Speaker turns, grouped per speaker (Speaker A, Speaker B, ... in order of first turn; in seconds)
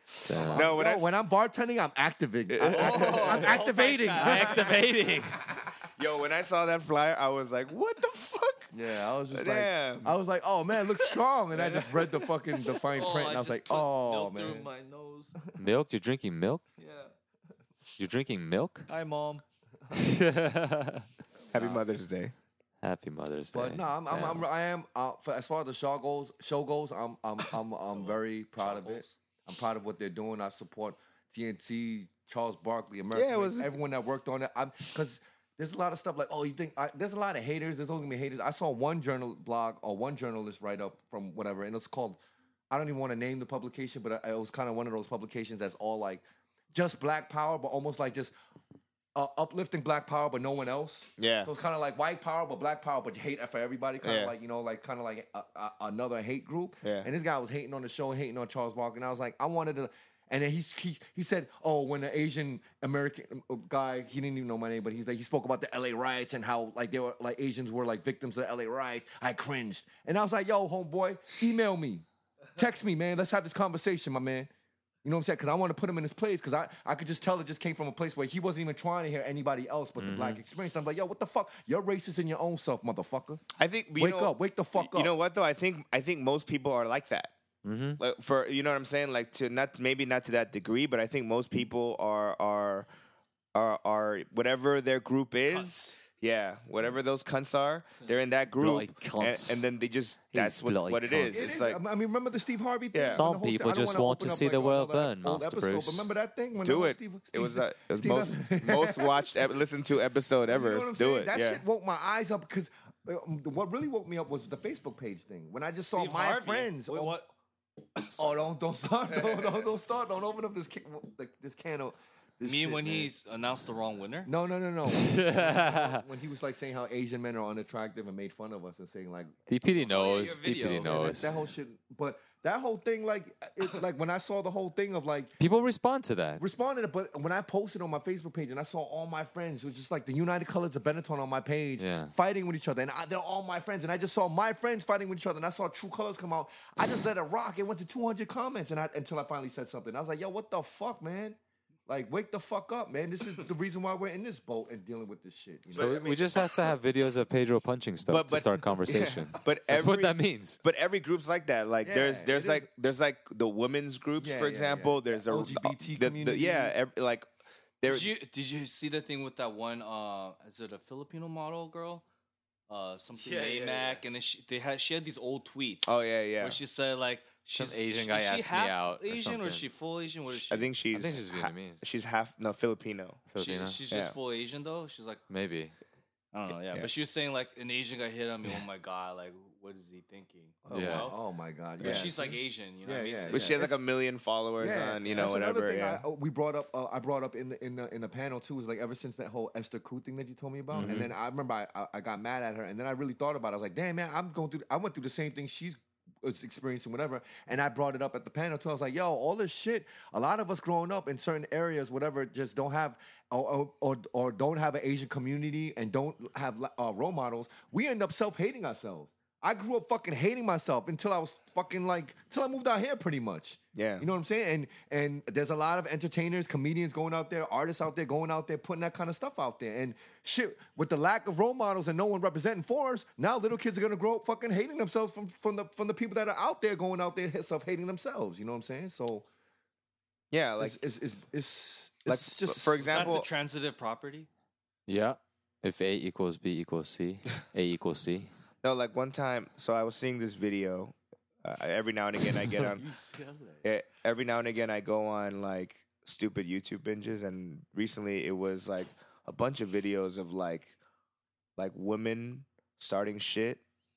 Speaker A: 0.2-0.7, 4.2-5.4, 15.6-16.6, 18.0-18.9, 19.9-21.1, 22.8-24.4, 80.0-80.4, 87.6-88.0, 98.6-99.7, 100.3-101.5, 103.0-106.1, 124.8-126.0, 129.5-131.3, 135.4-136.4, 141.8-142.1, 155.8-160.6, 177.5-179.6, 180.9-181.8, 183.3-183.8, 185.3-185.7, 190.7-191.1, 200.7-201.1, 244.9-248.3
Speaker B: 0.3-1.1, 2.5-3.6, 6.0-8.7, 9.3-10.1, 21.5-22.3, 33.1-33.8, 51.2-51.5, 54.0-54.3, 56.8-57.1, 83.6-87.3, 88.0-92.9, 93.5-101.8, 102.9-103.2, 106.6-111.6, 158.1-167.3, 167.8-168.1, 175.8-176.6, 180.3-183.2, 183.9-184.2, 186.5-186.9, 191.8-192.1, 193.3-196.1, 223.7-224.1, 240.3-240.8, 242.1-243.3, 248.6-252.8, 253.6-260.7, 261.6-263.6
Speaker C: 0.5-5.7, 8.7-14.7, 23.5-42.2, 42.7-48.3, 49.1-72.0, 72.5-74.5, 75.0-83.4, 84.0-85.1, 101.3-109.3, 110.5-117.2, 118.2-123.1, 124.2-129.5, 130.7-135.3, 136.4-156.7, 161.8-162.7, 164.2-166.7, 190.7-193.8, 194.6-239.3, 240.6-243.2
Speaker D: 2.6-4.9, 11.5-15.4, 16.8-17.1, 18.9-19.4, 27.9-29.2, 95.5-95.9, 115.9-117.3, 118.0-118.5, 119.0-119.7, 122.4-124.3, 129.8-131.0, 167.8-172.0, 172.7-180.7, 183.4-185.2, 186.3-191.2, 191.8-193.6, 195.1-195.3, 242.8-244.3, 252.6-253.6